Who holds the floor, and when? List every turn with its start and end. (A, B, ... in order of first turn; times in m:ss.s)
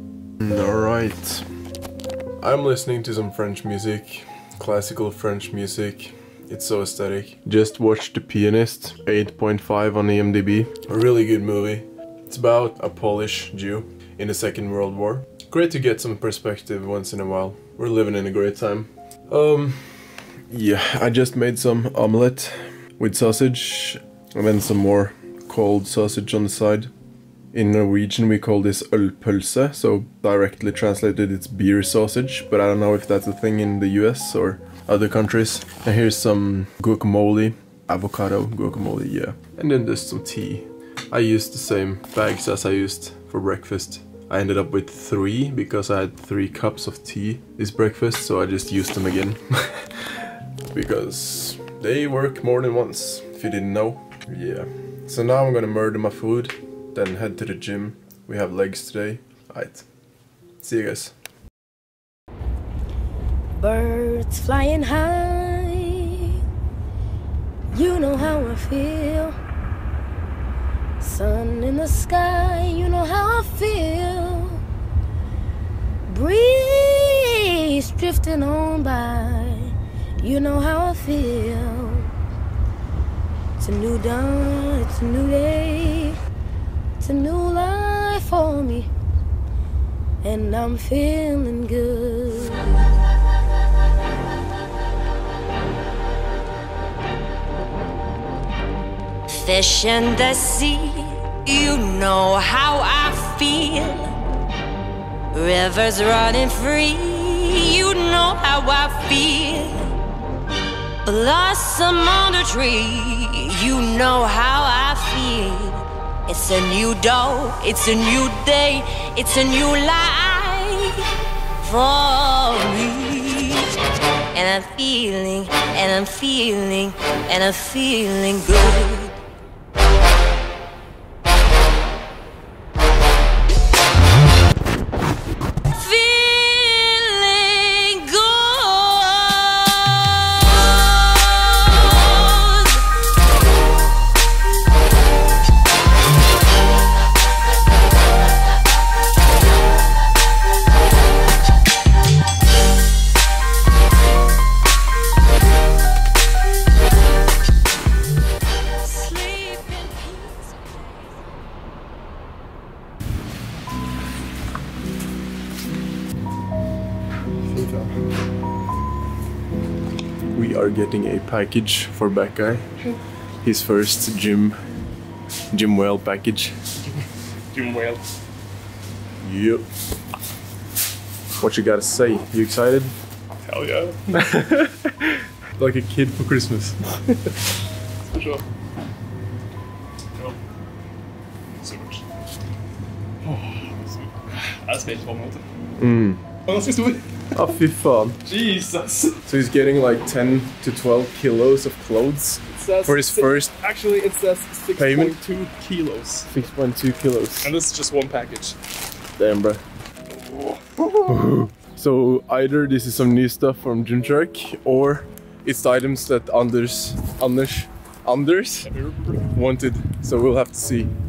0:00.4-0:01.4 A
0:02.4-0:26.9 A
0:27.5-0:59.8 A
1:00.6-1:01.1 A
1:03.6-1:06.4 B
1:07.7-1:09.4 B
1:11.0-1:14.6 B
1:16.1-1:22.1 B
1:23.6-1:26.2 B
1:27.0-1:28.9 B
1:30.2-1:32.8 B
1:39.3-1:44.2 C
1:45.3-1:49.9 C
1:51.0-2:01.1 C
2:01.6-2:03.7 C
2:04.3-2:09.2 C
2:15.7-2:22.8 C
2:38.8-2:41.1 C
2:47.5-2:47.9 D
2:50.3-2:52.7 A
2:53.4-2:54.6 A
2:55.5-2:56.6 A
2:57.5-2:58.0 D
2:59.2-2:59.6 A
3:01.4-3:02.9 A
3:03.4-3:04.0 D
3:04.1-3:06.8 A
3:08.1-3:08.4 D
3:11.6-3:12.0 D
3:13.2-3:15.4 D
3:15.8-3:16.2 A
3:16.4-3:17.3 D
3:17.3-3:18.2 A
3:18.2-3:19.2 D
3:19.2-3:23.5 A
3:22.5-3:26.3 D
3:24.8-3:25.2 A
3:26.3-3:27.5 A
3:27.4-3:28.6 D
3:29.2-3:29.6 A
3:30.1-3:31.2 D
3:31.0-3:38.7 A
3:38.6-3:39.3 D
3:39.3-3:40.9 A